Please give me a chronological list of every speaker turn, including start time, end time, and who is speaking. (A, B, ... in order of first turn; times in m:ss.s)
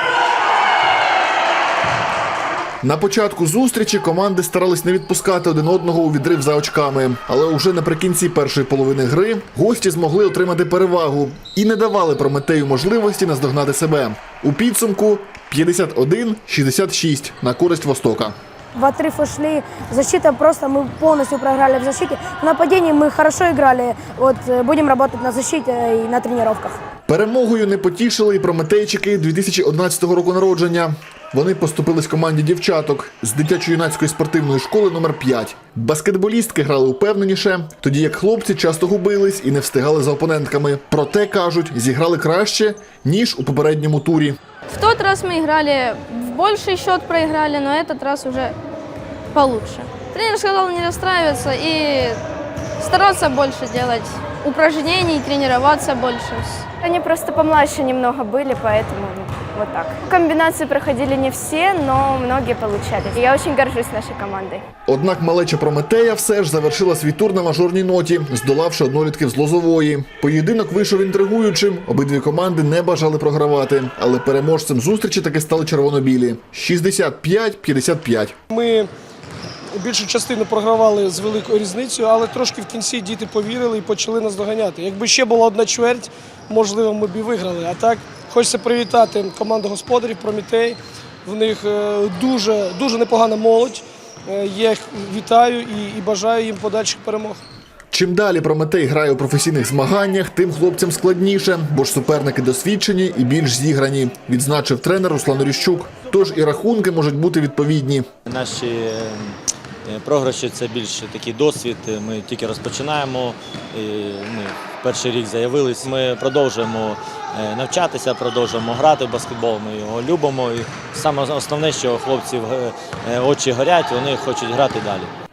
0:02.8-0:18.4 A
0:18.7-0:26.8 B
0:27.1-0:44.4 A
0:44.7-0:48.6 C
0:49.3-0:52.2 C
0:52.8-0:56.7 C
0:56.8-1:04.6 D
1:04.9-1:18.4 A
1:18.5-1:18.9 E
1:19.8-1:37.4 E
1:37.9-1:48.0 A
1:48.2-2:05.1 F